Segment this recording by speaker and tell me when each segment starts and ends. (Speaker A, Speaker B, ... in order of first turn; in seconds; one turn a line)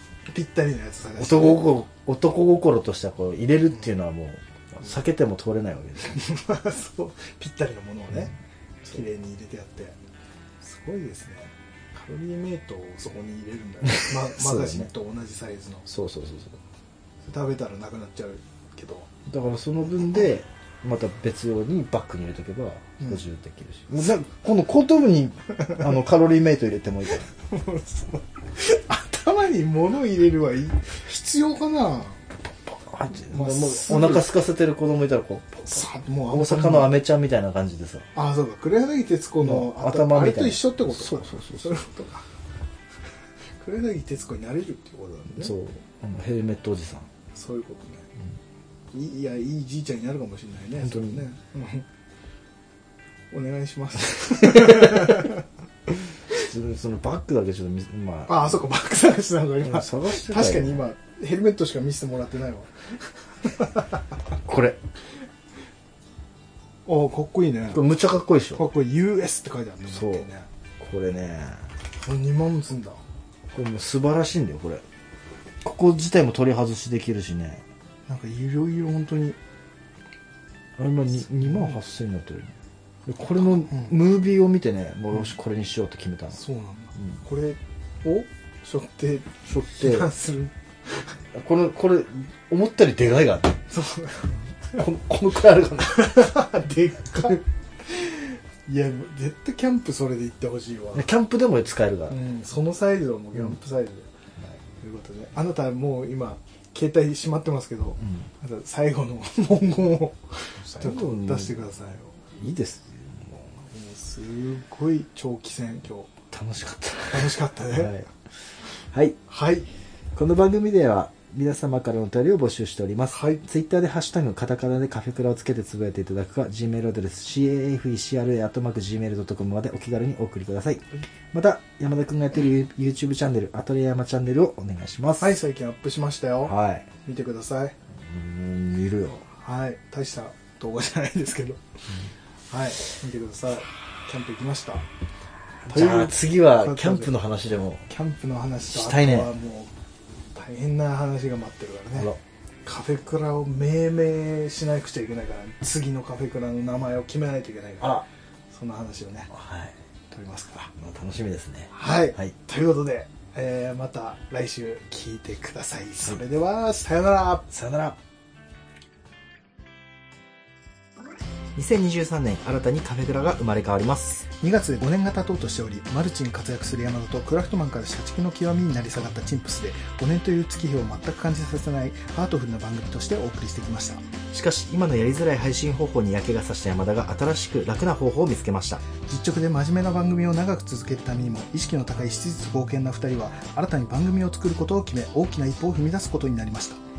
Speaker A: 0.3-1.6
Speaker B: 1.2-6.2
Speaker A: 6.1-10.0
Speaker A: 10.6-15.9
Speaker B: 13.8-14.9
Speaker B: 15.9-16.6
Speaker A: 17.3-19.1
Speaker B: 19.3-27.3
Speaker A: 27.4-32.2
Speaker B: 32.5-38.1
Speaker A: 33.3-34.3
Speaker A: 35.7-36.9
Speaker A: 38.1-42.2
Speaker B: 39.4-41.8
Speaker A: 43.6-45.5
Speaker B: 45.4-47.1
Speaker A: 47.3-48.1
Speaker A: 48.9-51.9
Speaker B: 50.8-51.2
Speaker A: 53.3-55.4
Speaker B: 54.4-55.2
Speaker B: 56.3-58.6
Speaker A: 58.3-62.7
Speaker B: 59.6-60.8
Speaker A: 63.4-64.0
Speaker B: 64.4-64.8
Speaker A: 66.9-67.8
Speaker B: 67.7-68.6
Speaker A: 68.5-70.5
Speaker B: 69.9-70.3
Speaker B: 70.8-71.7
Speaker A: 72.0-73.0
Speaker B: 73.5-74.8
Speaker B: 75.6-77.6
Speaker A: 78.1-79.4
Speaker B: 80.8-82.5
Speaker A: 81.2-81.8
Speaker B: 83.0-86.4
Speaker A: 83.4-84.0
Speaker A: 86.3-91.1
Speaker B: 89.5-90.1
Speaker B: 91.3-93.6
Speaker A: 93.7-94.8
Speaker B: 94.8-96.2
Speaker A: 95.8-101.1
Speaker B: 100.9-102.2
Speaker A: 102.1-104.1
Speaker A: 104.8-112.2
Speaker B: 108.0-108.3
Speaker B: 110.6-111.6
Speaker B: 112.3-113.5
Speaker A: 113.7-116.1
Speaker B: 116.3-118.1
Speaker A: 117.1-118.0
Speaker B: 118.9-119.2
Speaker A: 119.3-119.7
Speaker B: 120.1-135.3
Speaker A: 123.1-123.4
Speaker A: 135.2-137.7
Speaker B: 136.4-136.9
Speaker B: 138.0-139.2
Speaker A: 139.4-141.6
Speaker A: 142.5-144.8
Speaker B: 145.7-147.8
Speaker A: 145.7-147.1
Speaker A: 147.9-149.7
Speaker B: 148.7-149.3
Speaker A: 150.3-152.1
Speaker A: 152.6-159.3
Speaker B: 159.3-159.7
Speaker A: 160.1-160.7
Speaker B: 160.7-162.3
Speaker A: 161.7-167.5
Speaker B: 167.5-168.0
Speaker B: 171.5-174.3
Speaker A: 174.4-184.0
Speaker B: 184.3-188.8
Speaker A: 189.0-196.8